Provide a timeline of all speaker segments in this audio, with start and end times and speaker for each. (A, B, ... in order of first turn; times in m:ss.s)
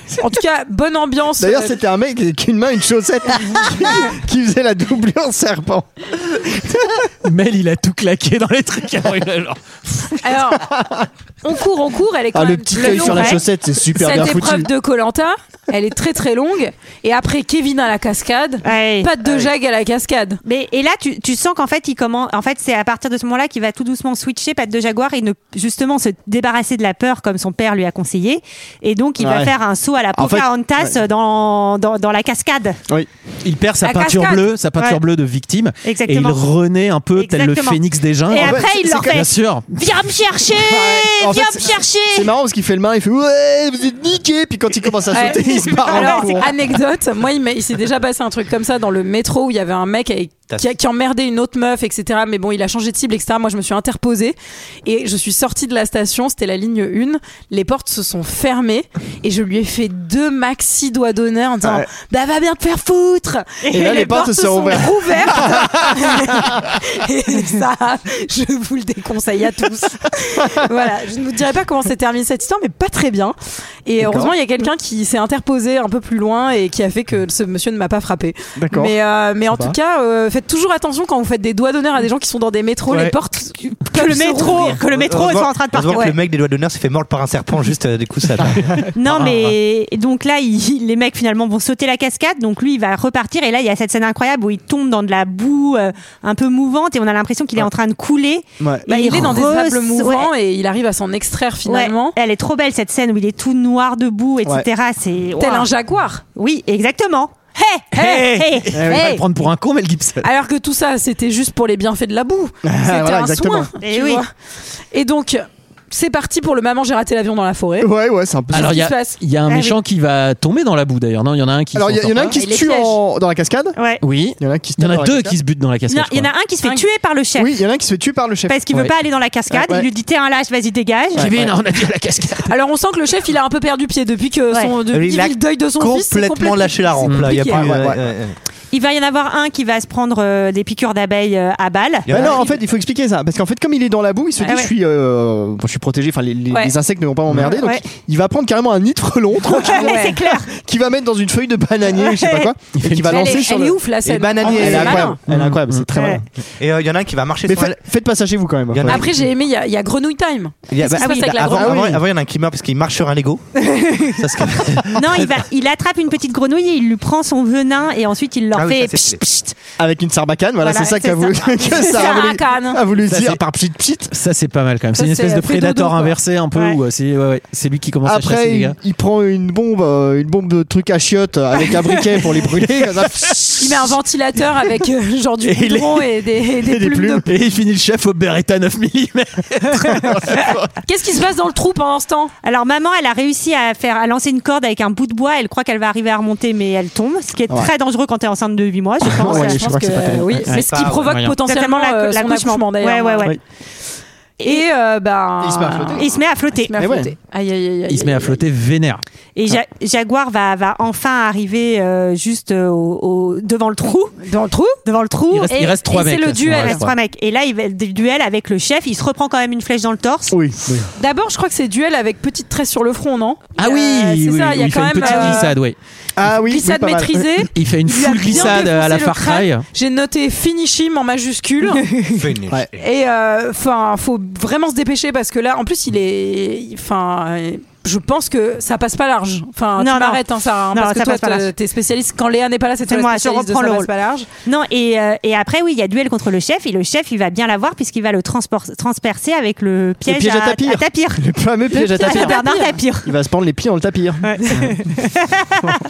0:00.2-0:01.8 A
0:01.4-0:07.1 B
0:07.2-0:10.2 C
0:10.2-0:10.7 A
0:10.6-0:11.1 B
0:11.4-0:13.4 A
0:12.3-0:14.7 B
0:12.8-0:13.4 D
0:14.0-0:20.4 A
0:18.6-0:19.1 D
0:20.4-0:32.8 D
0:29.2-0:29.5 B
0:30.1-0:31.0 B
0:33.4-0:39.9 C
0:33.8-0:34.4 A
0:35.8-0:36.5 D
0:37.2-0:42.3 D
0:38.4-0:39.2 B
0:40.6-0:46.5 B
0:45.1-1:24.8 A
0:45.3-0:46.4 D
1:01.6-1:01.9 B
1:03.7-1:06.6 B
1:03.7-1:04.1 D
1:14.0-1:14.3 B
1:18.6-1:19.0 B
1:19.5-1:19.8 B
1:23.9-1:26.2 D
1:24.8-1:28.9 E
1:28.9-1:40.3 D
1:29.1-1:29.5 C
1:38.6-1:38.9 B
1:38.9-1:42.2 A
1:41.7-1:45.7 D
1:45.4-1:46.2 A
1:46.4-1:48.8 D
1:47.9-1:49.2 A
1:47.9-1:50.3 C
1:48.7-1:49.1 B
1:50.2-1:54.3 A
1:52.6-1:53.7 B
1:53.8-1:54.2 D
1:54.9-1:57.9 A
1:57.8-1:58.8 B
1:58.5-1:59.2 A
1:58.5-2:02.4 C
1:59.5-1:59.8 D
2:01.8-2:03.8 B
2:02.3-2:03.0 A
2:03.8-2:04.0 D
2:04.0-2:06.3 C
2:04.4-2:05.4 B
2:05.9-2:07.5 D
2:07.4-2:08.9 B
2:08.5-2:11.4 D
2:09.5-2:09.9 B
2:11.2-2:11.5 B
2:11.2-2:12.5 C
2:12.5-2:17.7 A
2:14.9-2:18.4 E
2:17.4-2:18.1 B
2:18.7-2:22.4 D
2:22.1-2:22.4 E
2:22.1-2:33.8 B
2:24.4-2:24.7 D
2:27.4-2:27.8 D
2:29.6-2:30.5 D
2:29.6-2:30.3 A
2:32.0-2:32.5 D
2:32.8-2:33.4 C
2:33.1-2:35.2 A
2:34.0-2:35.1 E
2:34.4-2:36.2 B
2:35.3-2:35.9 C
2:36.0-2:36.2 D
2:36.6-2:37.8 E
2:37.5-2:39.1 B
2:38.7-2:39.1 E
2:38.9-2:41.8 A
2:40.7-2:45.4 E
2:41.0-2:41.6 D
2:41.5-2:42.0 B
2:43.6-2:44.2 D
2:44.9-2:49.5 D
2:48.5-2:49.2 E
2:49.8-2:54.1 B
2:50.6-2:52.3 D
2:51.6-2:52.8 A
2:53.1-2:53.4 C
2:54.1-2:58.8 C
2:55.0-2:56.2 A
2:58.0-3:03.7 B
3:02.8-3:03.6 C
3:03.6-3:07.3 A
3:05.4-3:06.1 C
3:06.6-3:07.3 B
3:07.3-3:10.7 C
3:10.8-3:12.3 A
3:12.4-3:19.6 D
3:19.0-3:20.5 B
3:19.2-3:23.3 A
3:20.5-3:21.3 C
3:20.5-3:21.2 E
3:21.4-3:23.4 D
3:24.4-3:28.4 A
3:25.4-3:26.2 B
3:26.0-3:26.7 D
3:26.8-3:27.1 B
3:27.9-3:29.0 C
3:29.4-3:34.2 D
3:34.2-3:34.8 A
3:34.8-3:35.6 D
3:35.3-3:37.0 C
3:35.5-3:36.8 A
3:36.5-3:40.4 D
3:40.3-3:40.9 B
3:41.0-3:45.6 A
3:43.6-3:45.8 C
3:45.0-3:45.4 D
3:46.2-3:47.5 B
3:46.4-3:51.9 A
3:47.5-3:49.6 C
3:51.8-3:52.1 D
3:52.1-3:52.8 E
3:52.8-4:04.3 A
3:59.8-4:01.5 D
4:02.9-4:03.9 D
4:04.4-4:13.1 D
4:10.0-4:12.4 B
4:11.8-4:12.8 A
4:13.0-4:14.8 B
4:14.2-4:15.8 D